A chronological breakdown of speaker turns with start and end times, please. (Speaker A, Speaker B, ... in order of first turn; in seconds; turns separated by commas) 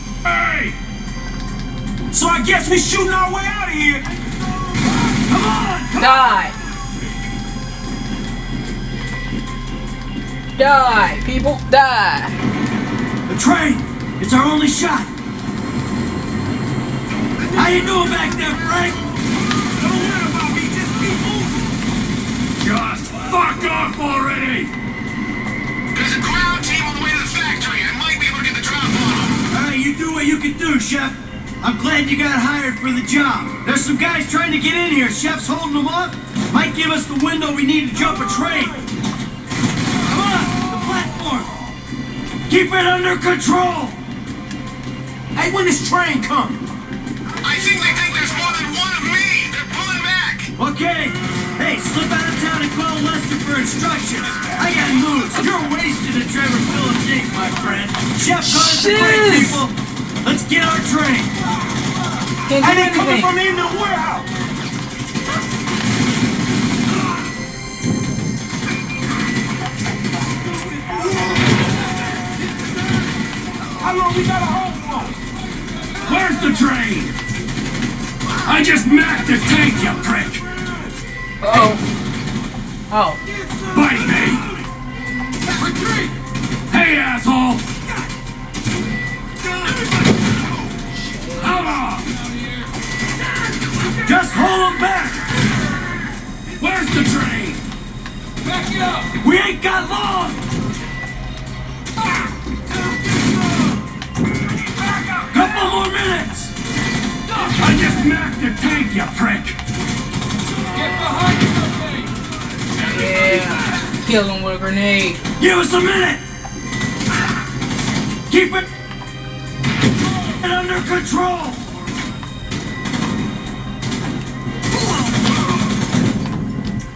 Speaker A: 0.2-0.7, Speaker B: 2.1-4.0, Speaker C: 5.4-6.2, Speaker D: 6.0-6.5, Speaker D: 10.6-12.3, Speaker C: 13.3-15.1, Speaker B: 17.4-18.2, Speaker C: 17.5-19.0, Speaker B: 19.7-21.7, Speaker A: 22.6-24.7, Speaker E: 25.9-29.3, Speaker C: 29.5-38.8, Speaker C: 40.0-41.5, Speaker C: 42.5-44.0, Speaker B: 45.3-46.6, Speaker E: 47.4-50.5, Speaker C: 50.6-61.3, Speaker D: 58.4-59.6, Speaker D: 62.5-63.3, Speaker B: 62.5-64.3, Speaker B: 70.7-71.7, Speaker B: 73.8-75.2, Speaker A: 76.0-77.1, Speaker A: 78.4-80.4, Speaker B: 80.0-80.9, Speaker D: 81.4-81.8, Speaker D: 82.9-83.2, Speaker B: 83.3-84.3, Speaker A: 83.7-84.5, Speaker A: 85.6-86.1, Speaker A: 86.7-87.7, Speaker D: 91.2-91.6, Speaker A: 91.4-92.2, Speaker A: 93.4-94.3, Speaker C: 94.0-95.2, Speaker A: 96.6-97.6, Speaker A: 98.4-99.2, Speaker C: 99.2-100.4, Speaker A: 104.8-105.2, Speaker C: 105.3-106.5, Speaker A: 107.3-109.6, Speaker A: 110.5-112.2, Speaker A: 112.7-113.8, Speaker D: 112.8-115.2, Speaker C: 115.4-116.2, Speaker C: 118.3-118.7, Speaker C: 120.4-121.7